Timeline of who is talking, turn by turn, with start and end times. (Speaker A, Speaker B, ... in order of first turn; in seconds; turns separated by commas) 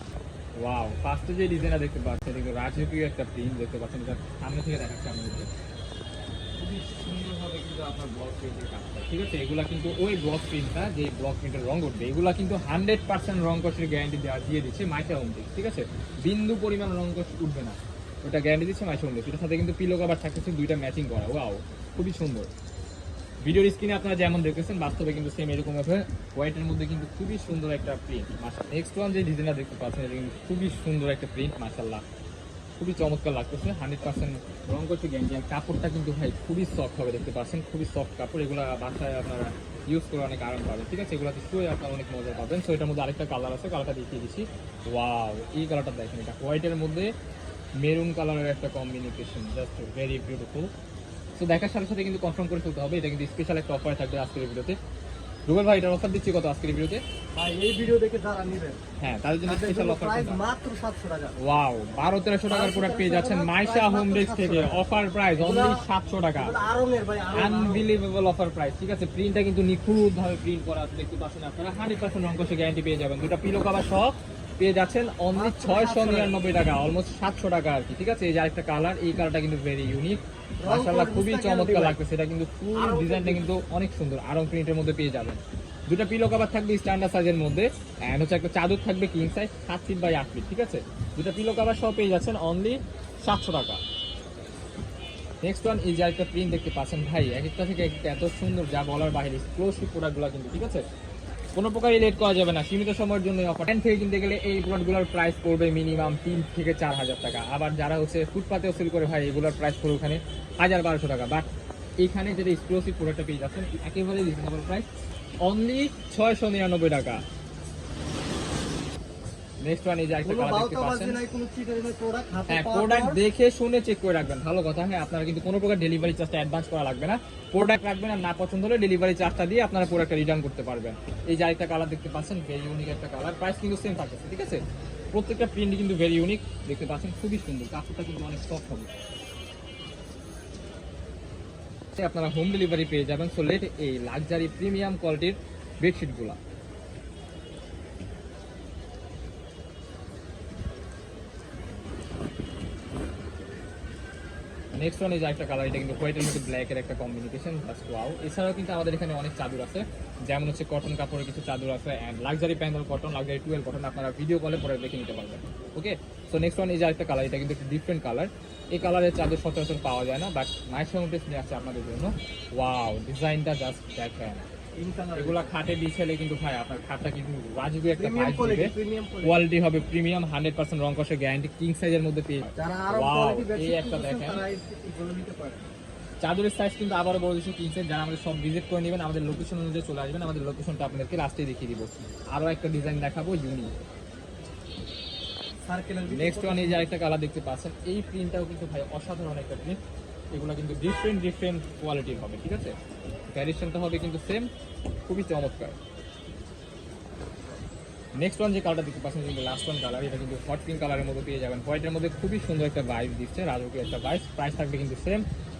Speaker A: 0.6-5.5, Speaker A: 6.6-22.5, Speaker A: 23.4-32.0, Speaker A: 32.8-47.1, Speaker A: 47.8-50.7, Speaker A: 51.4-54.8, Speaker A: 55.5-57.0, Speaker B: 57.3-58.8, Speaker A: 59.0-60.4, Speaker B: 59.5-61.4, Speaker A: 61.4-66.5, Speaker B: 62.5-64.8, Speaker B: 65.4-65.8, Speaker B: 66.3-67.8, Speaker A: 67.3-93.8, Speaker B: 75.3-76.3, Speaker B: 80.6-82.0, Speaker B: 82.7-83.5, Speaker A: 95.4-100.8, Speaker A: 101.5-111.5, Speaker A: 112.0-114.9, Speaker A: 115.4-117.2, Speaker A: 119.6-121.2, Speaker B: 120.2-123.2, Speaker A: 122.5-138.9, Speaker A: 141.9-146.4, Speaker A: 154.7-174.4, Speaker B: 174.8-175.5, Speaker A: 175.2-184.4, Speaker B: 177.9-179.4, Speaker B: 182.6-185.6, Speaker A: 186.2-193.7, Speaker B: 195.7-196.9, Speaker A: 196.1-199.8, Speaker A: 200.3-202.8, Speaker A: 203.3-204.5, Speaker A: 205.1-205.8, Speaker A: 208.2-215.2